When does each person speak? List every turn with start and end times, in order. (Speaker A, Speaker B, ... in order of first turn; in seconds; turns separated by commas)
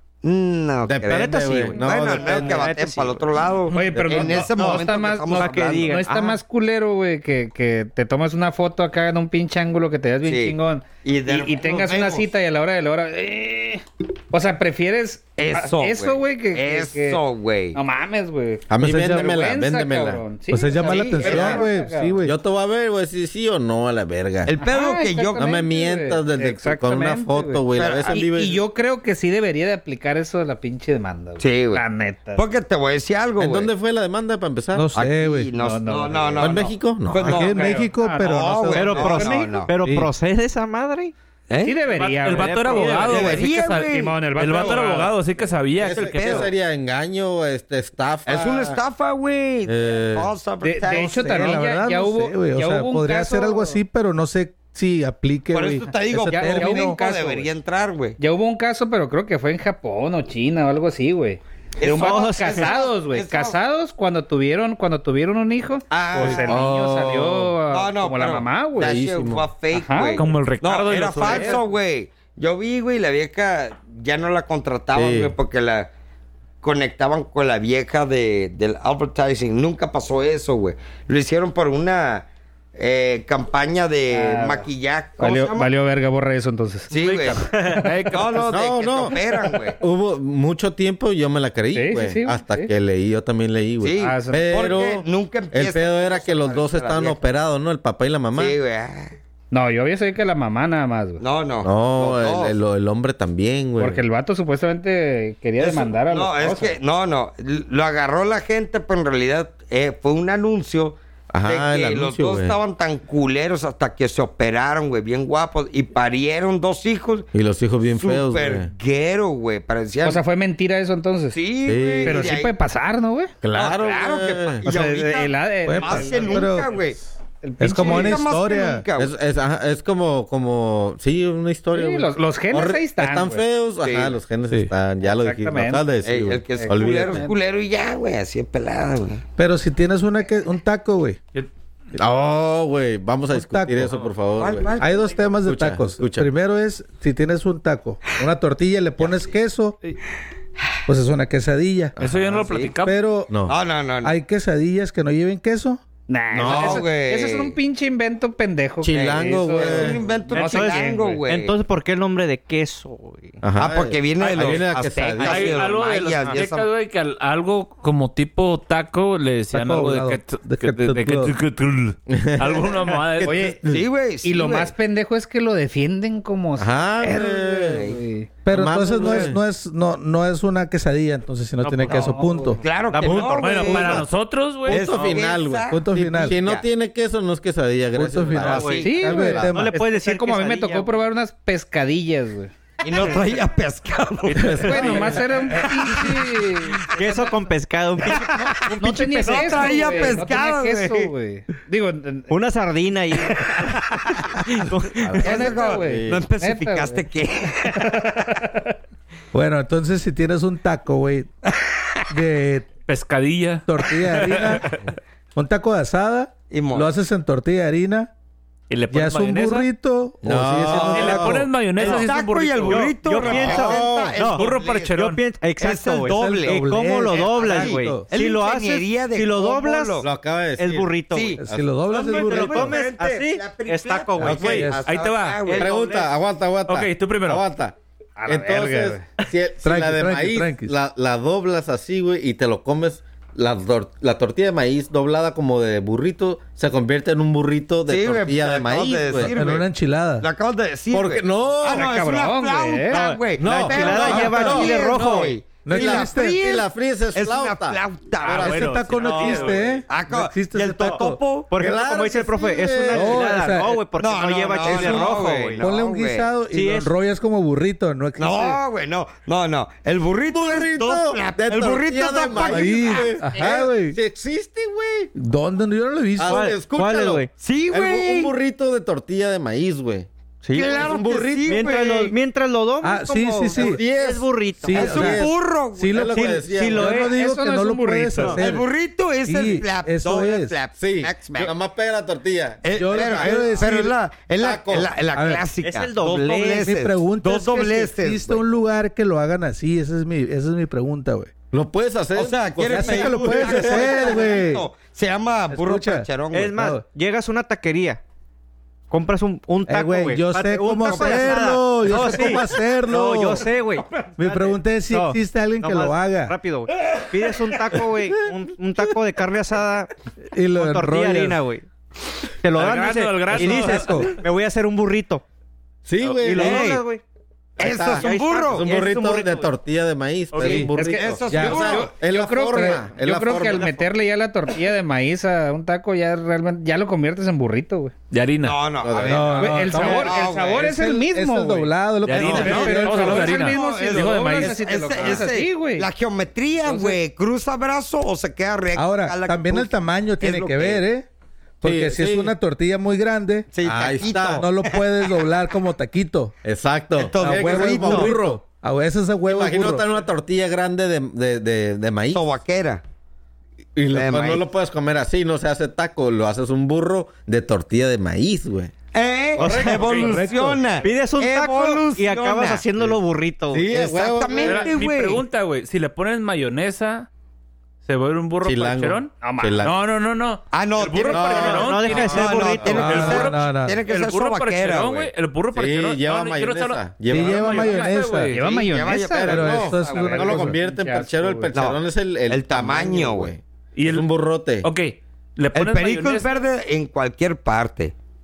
Speaker A: 0.2-6.0, Speaker B: 0.9-2.7, Speaker C: 1.1-3.3, Speaker D: 3.7-17.2, Speaker B: 3.9-4.4, Speaker C: 4.6-6.4, Speaker A: 10.2-12.3, Speaker A: 15.4-17.8, Speaker D: 17.7-22.2, Speaker B: 18.7-20.2, Speaker E: 18.8-19.3, Speaker E: 20.5-22.4, Speaker A: 20.8-21.7, Speaker B: 22.2-24.5, Speaker A: 24.4-25.5, Speaker D: 24.6-32.4, Speaker B: 25.4-28.6, Speaker A: 27.7-28.2, Speaker A: 31.4-31.8, Speaker A: 32.4-33.7, Speaker B: 33.4-35.0, Speaker E: 34.7-35.5, Speaker A: 34.9-39.7, Speaker D: 35.6-36.6, Speaker B: 36.4-37.6, Speaker E: 37.1-39.1, Speaker D: 37.4-39.5, Speaker C: 38.7-41.1, Speaker E: 39.8-40.1, Speaker A: 41.5-41.8, Speaker D: 41.6-45.1, Speaker F: 42.0-46.5, Speaker C: 42.0-43.4, Speaker A: 43.1-44.9, Speaker B: 45.8-48.8, Speaker A: 45.8-46.5, Speaker A: 48.3-51.6, Speaker B: 49.6-50.3, Speaker D: 50.6-53.8, Speaker E: 50.9-57.0, Speaker A: 55.5-58.2, Speaker D: 56.3-57.5, Speaker D: 58.2-69.0, Speaker A: 61.8-63.6, Speaker C: 61.9-62.7, Speaker A: 65.9-66.7, Speaker B: 66.2-67.5, Speaker A: 67.7-75.9, Speaker B: 68.8-69.4, Speaker D: 69.7-70.2, Speaker F: 70.2-71.6, Speaker D: 71.2-71.6, Speaker B: 74.9-75.3, Speaker A: 76.6-85.7, Speaker D: 84.1-84.7, Speaker D: 85.2-86.9, Speaker A: 86.9-87.5, Speaker F: 86.9-88.5, Speaker D: 87.6-88.1, Speaker A: 88.1-89.8, Speaker B: 88.5-89.2, Speaker B: 89.8-98.6, Speaker D: 91.7-92.7, Speaker A: 93.8-97.2, Speaker D: 94.0-94.5, Speaker A: 98.3-99.2, Speaker D: 99.5-101.2, Speaker A: 101.2-102.6, Speaker B: 101.6-104.0, Speaker D: 103.8-106.8, Speaker A: 105.6-117.3, Speaker B: 111.3-112.6, Speaker B: 117.3-118.7, Speaker A: 117.9-120.2, Speaker D: 120.0-121.4, Speaker A: 121.3-122.5, Speaker B: 121.7-122.4, Speaker D: 122.0-123.3, Speaker B: 123.4-124.7, Speaker A: 123.5-127.0, Speaker D: 124.6-126.5, Speaker E: 125.7-126.9, Speaker D: 127.4-128.3, Speaker E: 127.6-128.8, Speaker A: 127.8-129.1, Speaker B: 129.0-137.3, Speaker D: 131.7-133.4, Speaker A: 133.8-134.2, Speaker D: 135.0-135.8, Speaker A: 136.0-139.2, Speaker D: 136.6-137.3, Speaker E: 139.4-141.2, Speaker B: 141.9-144.7, Speaker E: 143.3-143.9, Speaker A: 144.4-145.3, Speaker E: 144.8-149.8, Speaker B: 145.4-146.3, Speaker E: 150.9-151.9, Speaker B: 152.0-152.4, Speaker F: 152.0-153.0, Speaker A: 152.4-152.7, Speaker E: 152.8-153.3, Speaker B: 153.3-153.6, Speaker A: 153.5-154.2, Speaker E: 154.0-155.8, Speaker D: 156.1-161.2, Speaker B: 156.3-156.9, Speaker A: 156.4-157.6, Speaker B: 158.8-160.2, Speaker A: 158.9-161.6, Speaker C: 160.3-163.4, Speaker B: 163.4-165.7, Speaker A: 163.6-166.7, Speaker F: 165.2-173.5, Speaker E: 169.5-171.3, Speaker B: 172.1-173.8, Speaker D: 173.2-173.6, Speaker A: 173.7-174.7, Speaker D: 174.2-176.7, Speaker B: 176.6-177.9, Speaker A: 177.0-178.0, Speaker D: 177.6-178.3, Speaker E: 178.4-182.6, Speaker B: 178.5-179.4, Speaker F: 181.6-182.1, Speaker D: 181.9-182.6, Speaker A: 182.6-184.1, Speaker C: 182.9-184.0, Speaker F: 183.3-185.1, Speaker B: 183.7-184.0, Speaker A: 184.7-186.7, Speaker B: 184.7-189.5, Speaker E: 185.7-186.4, Speaker E: 187.9-189.7, Speaker A: 188.4-188.9, Speaker C: 188.4-191.0, Speaker D: 188.8-192.5, Speaker A: 192.8-196.8, Speaker F: 194.3-195.4, Speaker B: 194.4-195.2, Speaker D: 194.6-197.3, Speaker C: 196.9-200.3, Speaker A: 198.1-201.1, Speaker D: 198.7-202.3, Speaker C: 202.3-205.4, Speaker B: 205.1-206.3, Speaker A: 205.1-207.9, Speaker D: 205.2-207.0, Speaker D: 207.7-208.7, Speaker E: 209.3-211.3, Speaker E: 212.1-212.7, Speaker F: 212.9-214.8, Speaker E: 213.7-214.7, Speaker E: 215.3-218.1, Speaker A: 216.5-216.9, Speaker F: 218.7-219.7, Speaker E: 218.9-221.5, Speaker B: 220.2-221.5, Speaker A: 220.8-221.2, Speaker F: 220.9-223.4, Speaker A: 221.8-225.0, Speaker C: 222.7-231.4, Speaker B: 223.3-224.4, Speaker F: 224.3-225.2, Speaker A: 225.6-230.1, Speaker E: 226.1-228.1, Speaker B: 230.0-231.8, Speaker A: 231.1-236.0, Speaker E: 231.4-232.8, Speaker C: 232.0-234.7, Speaker B: 234.2-234.8, Speaker E: 234.3-234.8, Speaker F: 234.4-235.6, Speaker C: 235.4-236.1, Speaker B: 235.6-237.7, Speaker F: 236.7-237.4, Speaker D: 238.2-239.1, Speaker B: 238.3-249.4, Speaker E: 239.6-240.7, Speaker A: 247.9-249.7, Speaker E: 249.2-250.3, Speaker A: 250.2-261.5, Speaker B: 250.9-251.9, Speaker D: 251.7-253.1, Speaker C: 252.9-255.4, Speaker B: 253.4-258.9, Speaker E: 254.1-254.6, Speaker E: 255.7-256.4, Speaker F: 258.2-259.8, Speaker E: 258.4-261.2, Speaker C: 259.0-259.4, Speaker C: 261.5-265.6, Speaker B: 261.6-263.3, Speaker E: 262.9-263.8, Speaker A: 264.0-266.4, Speaker E: 264.6-268.6, Speaker C: 266.5-266.9, Speaker A: 268.2-273.3, Speaker B: 270.3-275.1, Speaker E: 272.4-274.0, Speaker E: 275.1-276.4, Speaker B: 276.2-280.1, Speaker C: 276.2-277.3, Speaker A: 277.3-278.3, Speaker C: 280.4-280.9, Speaker A: 280.5-282.1, Speaker B: 280.7-281.8, Speaker C: 281.4-285.2, Speaker E: 282.8-283.8, Speaker B: 283.6-285.3, Speaker E: 284.6-288.7, Speaker A: 284.7-286.3, Speaker B: 285.9-287.0, Speaker C: 286.1-287.1, Speaker D: 287.0-288.4, Speaker A: 288.4-291.6, Speaker E: 289.2-290.6, Speaker B: 290.8-294.9, Speaker A: 292.6-298.4, Speaker E: 292.7-293.9, Speaker E: 295.1-295.4, Speaker C: 295.6-296.7, Speaker E: 296.6-301.3, Speaker B: 301.5-304.5, Speaker A: 302.1-306.6, Speaker E: 302.7-304.7, Speaker E: 305.5-306.8, Speaker C: 306.3-308.0, Speaker C: 308.9-319.9, Speaker E: 309.7-313.4, Speaker A: 310.9-311.6, Speaker B: 311.6-312.4, Speaker E: 314.2-316.4, Speaker E: 320.3-321.4, Speaker C: 320.6-321.6, Speaker C: 322.4-325.2, Speaker F: 322.6-324.2, Speaker E: 323.3-324.1, Speaker B: 325.9-326.7, Speaker C: 326.2-327.0, Speaker A: 326.3-326.8, Speaker B: 327.6-333.8, Speaker A: 327.6-328.7, Speaker C: 327.6-329.5, Speaker F: 330.3-330.7, Speaker D: 330.5-337.9, Speaker A: 330.8-331.9, Speaker E: 331.3-331.7, Speaker F: 338.1-338.6, Speaker A: 338.4-340.7, Speaker B: 338.8-339.7, Speaker E: 339.0-343.2, Speaker D: 339.4-341.7, Speaker F: 342.0-345.2, Speaker B: 342.1-342.8, Speaker A: 342.2-350.8, Speaker D: 342.3-345.9, Speaker D: 346.6-347.0, Speaker E: 348.7-351.1, Speaker E: 351.6-353.5, Speaker B: 351.6-352.3, Speaker A: 353.5-354.8, Speaker B: 353.6-354.5, Speaker E: 354.4-356.4, Speaker B: 356.4-358.4, Speaker A: 356.9-358.1, Speaker E: 357.2-359.9, Speaker B: 359.3-362.2, Speaker A: 362.1-362.8, Speaker B: 363.8-368.7, Speaker A: 363.9-364.4, Speaker A: 368.9-372.7, Speaker C: 369.4-374.0, Speaker B: 369.4-369.8, Speaker F: 369.7-370.2, Speaker E: 370.0-370.6, Speaker B: 373.5-374.8, Speaker A: 373.7-375.2, Speaker F: 374.4-377.1, Speaker F: 377.9-388.4, Speaker B: 378.4-379.8, Speaker D: 379.2-379.7, Speaker A: 380.5-385.1, Speaker B: 381.1-383.2, Speaker C: 381.4-383.1, Speaker E: 382.7-383.8, Speaker B: 385.5-387.9, Speaker E: 387.1-388.3, Speaker D: 388.3-391.5, Speaker A: 388.4-390.0, Speaker E: 389.2-390.6, Speaker B: 389.2-394.7, Speaker A: 391.5-393.3, Speaker F: 393.7-394.1, Speaker F: 394.6-396.3, Speaker A: 395.6-397.9